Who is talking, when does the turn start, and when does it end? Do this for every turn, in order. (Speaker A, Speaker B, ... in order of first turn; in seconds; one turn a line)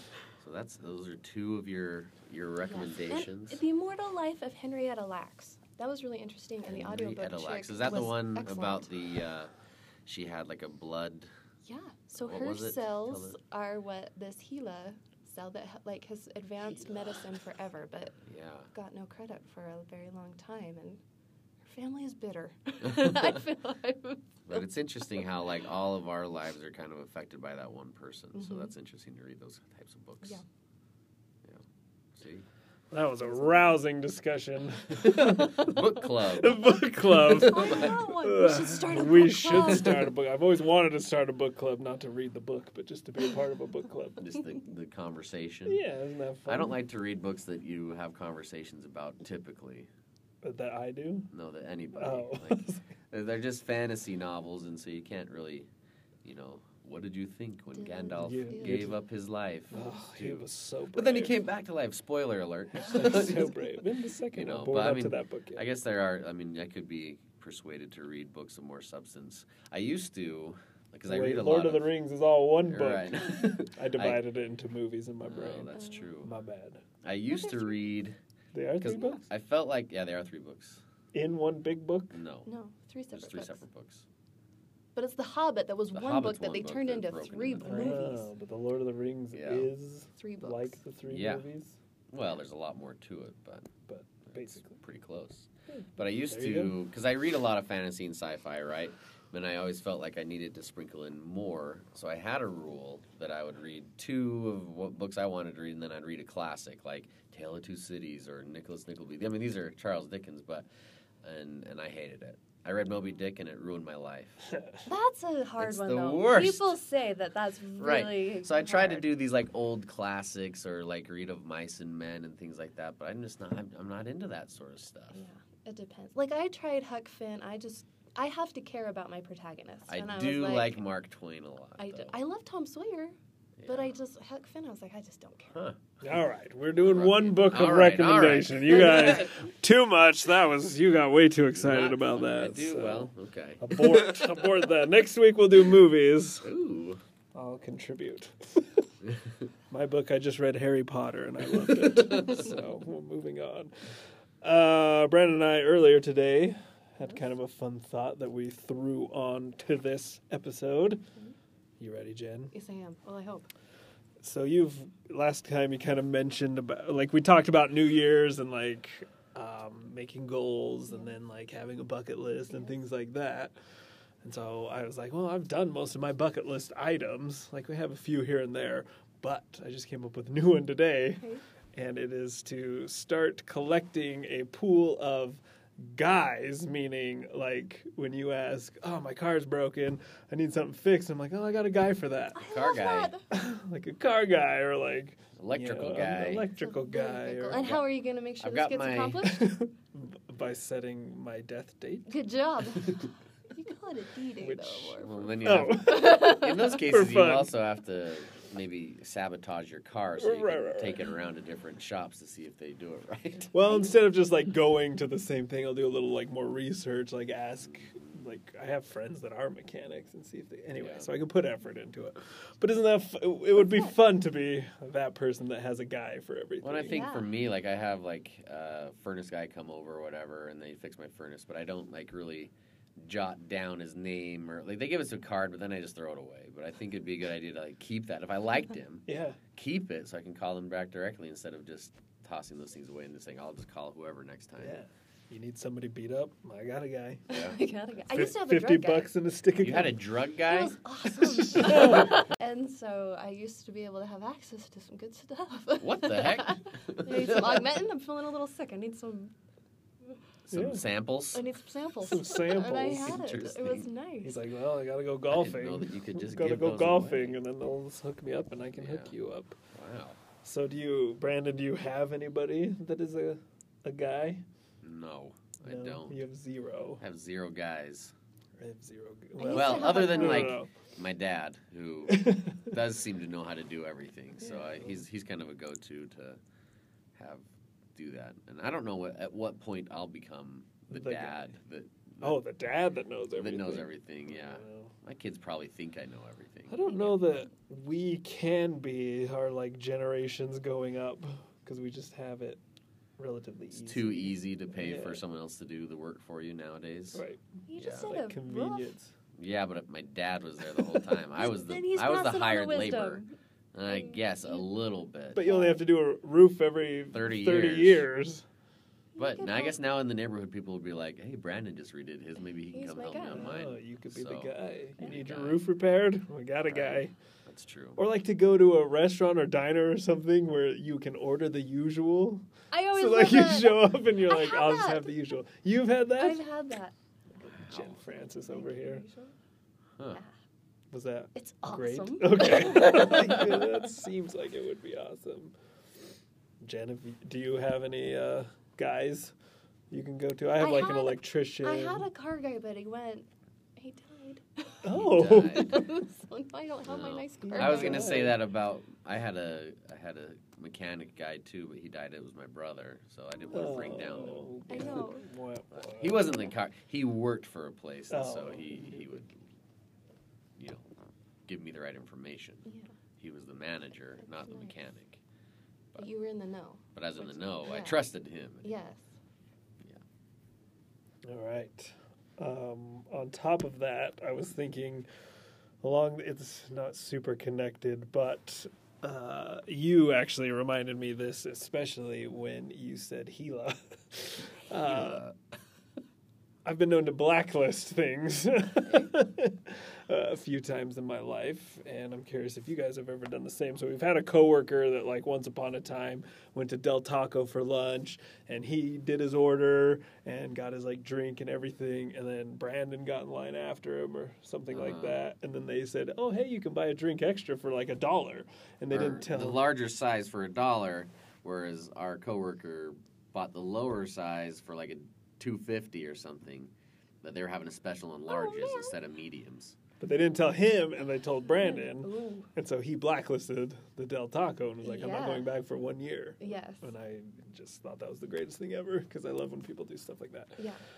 Speaker A: 0.4-3.6
Speaker B: 2.6-8.9
Speaker A: 6.7-9.5
Speaker A: 10.1-11.3
Speaker B: 11.6-18.2
Speaker A: 12.2-13.4
Speaker A: 18.2-18.7
Speaker B: 18.7-21.0
Speaker B: 21.6-24.2
Speaker A: 22.9-23.3
Speaker A: 24.5-30.4
Speaker B: 28.4-28.7
Speaker A: 31.4-32.5
Speaker C: 32.9-44.2
Speaker B: 33.3-33.6
Speaker A: 34.9-38.0
Speaker B: 37.2-40.0
Speaker A: 44.2-45.8
Speaker C: 45.6-46.8
Speaker A: 46.5-49.9
Speaker C: 50.4-51.3
Speaker A: 51.3-55.7
Speaker C: 51.9-52.8
Speaker A: 56.2-71.9
Speaker B: 57.8-58.9
Speaker C: 58.2-59.0
Speaker C: 59.7-61.4
Speaker C: 62.8-65.7
Speaker C: 71.1-76.8
Speaker A: 72.7-74.2
Speaker A: 75.2-76.3
Speaker B: 75.8-76.1
Speaker A: 77.0-78.2
Speaker B: 77.3-77.9
Speaker C: 78.5-79.2
Speaker A: 78.8-80.8
Speaker C: 81.1-82.2
Speaker A: 82.1-82.5
Speaker B: 82.5-83.6
Speaker A: 83.1-84.0
Speaker B: 85.0-88.3
Speaker A: 85.9-88.0
Speaker C: 87.6-91.8
Speaker A: 89.3-89.7
Speaker B: 90.2-90.8
Speaker A: 91.1-91.5
Speaker A: 92.1-93.7
Speaker C: 93.9-94.8
Speaker A: 94.2-110.7
Speaker C: 95.7-96.8
Speaker A: 111.2-114.5
Speaker B: 114.8-119.1
Speaker A: 115.6-116.8
Speaker A: 117.8-125.2
Speaker B: 125.1-130.8
Speaker A: 129.9-132.1
Speaker B: 131.8-135.5
Speaker A: 133.6-133.9
Speaker A: 135.5-135.8
Speaker C: 136.0-146.5
Speaker A: 136.8-139.4
Speaker A: 141.6-144.4
Speaker A: 146.4-147.0
Speaker C: 147.3-148.9
Speaker C: 149.7-161.0
Speaker A: 152.1-152.4
Speaker C: 161.8-162.5
Speaker B: 162.5-163.5
Speaker C: 164.2-173.5
Speaker C: 174.2-192.4
Speaker B: 192.3-193.2
Speaker A: 192.5-193.1
Speaker C: 193.3-197.6
Speaker A: 195.4-196.5
Speaker B: 196.6-199.5
Speaker A: 197.5-197.9
Speaker A: 198.4-199.3
Speaker C: 199.2-202.1
Speaker B: 202.1-203.0
Speaker B: 203.5-206.8
Speaker C: 204.4-207.5
Speaker A: 205.0-213.5
Speaker C: 210.2-211.1
Speaker C: 213.5-227.1
Speaker A: 217.7-218.2
Speaker A: 220.8-221.1
Speaker A: 226.6-244.8
Speaker B: 226.9-227.3
Speaker C: 239.1-239.4
Speaker C: 244.6-247.2
Speaker A: 247.3-247.6
Speaker B: 247.3-249.1
Speaker C: 248.1-250.0
Speaker A: 249.6-250.8
Speaker B: 250.5-259.3
Speaker C: 251.2-252.2
Speaker A: 251.6-251.9
Speaker A: 255.8-257.6
Speaker C: 260.5-260.8
Speaker A: 260.5-261.5
Speaker B: 261.3-264.4
Speaker C: 262.0-263.2
Speaker A: 262.9-263.9
Speaker C: 264.2-269.6
Speaker A: 265.3-267.4
Speaker A: 268.8-269.1
Speaker A: 269.7-270.2
Speaker C: 270.4-274.4
Speaker A: 274.8-276.2
Speaker C: 275.6-277.0
Speaker A: 277.0-278.1
Speaker C: 278.6-280.7
Speaker B: 279.4-280.5
Speaker A: 279.5-286.4
Speaker C: 282.1-282.7
Speaker C: 284.4-285.0
Speaker A: 287.1-287.4
Speaker A: 287.9-292.4
Speaker C: 290.9-291.4
Speaker C: 292.2-294.9
Speaker A: 293.4-297.1
Speaker C: 296.7-302.6
Speaker C: 303.2-305.2
Speaker A: 303.8-307.2
Speaker C: 307.1-307.4
Speaker B: 307.7-308.9
Speaker A: 307.8-308.2
Speaker C: 308.0-309.1
Speaker A: 309.4-313.2
Speaker B: 311.3-313.3
Speaker A: 313.7-315.5
Speaker B: 313.9-314.7
Speaker C: 315.3-318.4
Speaker B: 315.4-315.8
Speaker A: 317.1-318.1
Speaker B: 319.1-319.8
Speaker A: 319.2-325.6
Speaker B: 322.7-323.5
Speaker C: 323.3-327.1
Speaker A: 326.7-328.0
Speaker C: 328.0-336.4
Speaker B: 332.7-335.1
Speaker B: 336.2-336.9
Speaker C: 337.4-339.0
Speaker A: 337.5-338.0
Speaker B: 338.0-339.3
Speaker C: 340.9-345.5
Speaker B: 341.3-343.6
Speaker C: 346.6-349.3
Speaker C: 349.9-352.1
Speaker B: 350.6-354.7
Speaker C: 354.8-355.7
Speaker A: 354.9-355.9
Speaker B: 355.5-358.3
Speaker A: 356.9-365.0
Speaker C: 357.5-358.4
Speaker C: 363.5-366.4
Speaker B: 364.7-365.2
Speaker A: 365.7-369.4
Speaker C: 368.1-369.1
Speaker A: 370.6-370.9
Speaker A: 371.5-372.7
Speaker A: 373.2-375.2
Speaker B: 374.2-374.8
Speaker B: 376.0-378.0
Speaker A: 376.9-378.7
Speaker B: 378.6-379.1
Speaker C: 381.2-385.1
Speaker C: 385.8-395.3
Speaker A: 394.9-395.3
Speaker C: 396.6-419.7
Speaker A: 414.7-415.2
Speaker A: 418.9-426.7
Speaker A: 427.2-429.8
Speaker B: 428.3-428.9
Speaker C: 430.0-440.6
Speaker B: 431.5-432.5
Speaker B: 434.8-435.5
Speaker B: 436.4-436.9